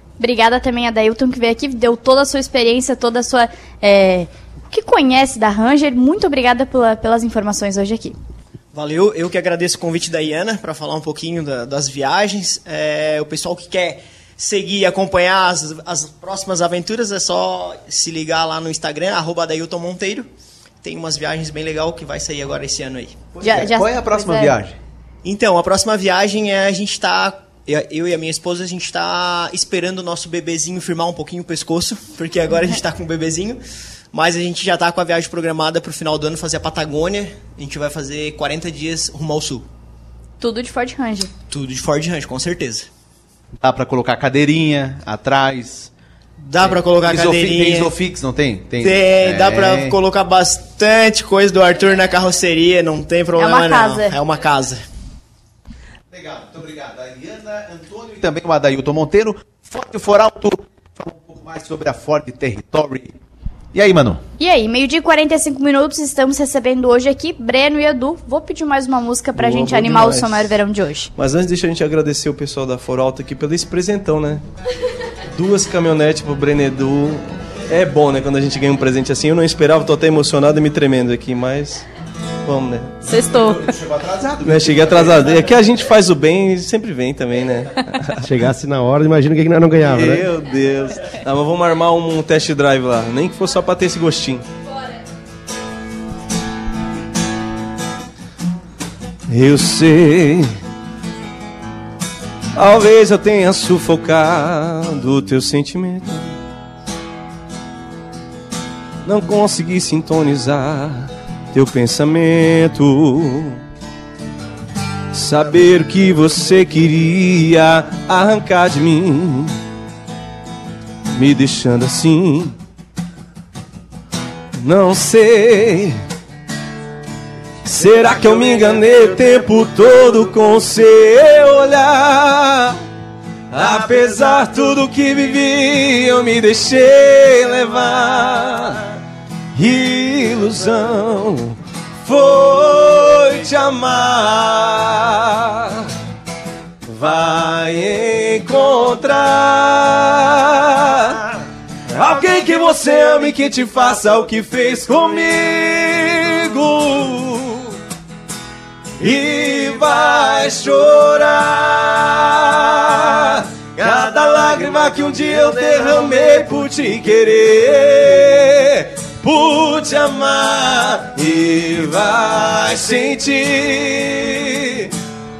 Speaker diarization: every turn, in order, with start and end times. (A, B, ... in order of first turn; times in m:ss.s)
0:00.2-0:08.1 A
0:08.7-0:20.3 B
0:20.8-0:23.2 B
0:23.4-0:24.8 C
0:23.4-0:24.6 A
0:25.2-0:33.6 B
0:34.1-0:39.6 B
0:40.4-0:41.3 A
0:41.5-0:42.9 B
0:43.6-0:45.9 C
0:46.4-0:47.9 B
0:46.6-0:49.9 C
0:48.8-0:54.8 B
0:53.4-0:54.2 A
0:56.1-1:03.1 C
1:03.7-1:04.2 C
1:04.4-1:11.1 A
1:09.4-1:10.5 D
1:11.2-1:14.4 D
1:15.3-1:21.8 D
1:22.4-1:22.9 D
1:23.1-1:23.6 A
1:23.1-1:25.3 C
1:24.4-1:28.2 D
1:28.2-1:30.3 E
1:29.8-1:34.4 D
1:39.3-1:40.5 D
1:42.6-1:46.4 D
1:49.0-1:53.6 D
1:55.1-1:59.5 D
2:01.2-2:02.5 D
2:04.6-2:06.0 D
2:07.6-2:12.8 D
2:13.5-2:18.8 D
2:19.5-2:25.9 D
2:26.8-2:31.3 D
2:31.9-2:37.7 D
2:39.0-2:54.9 D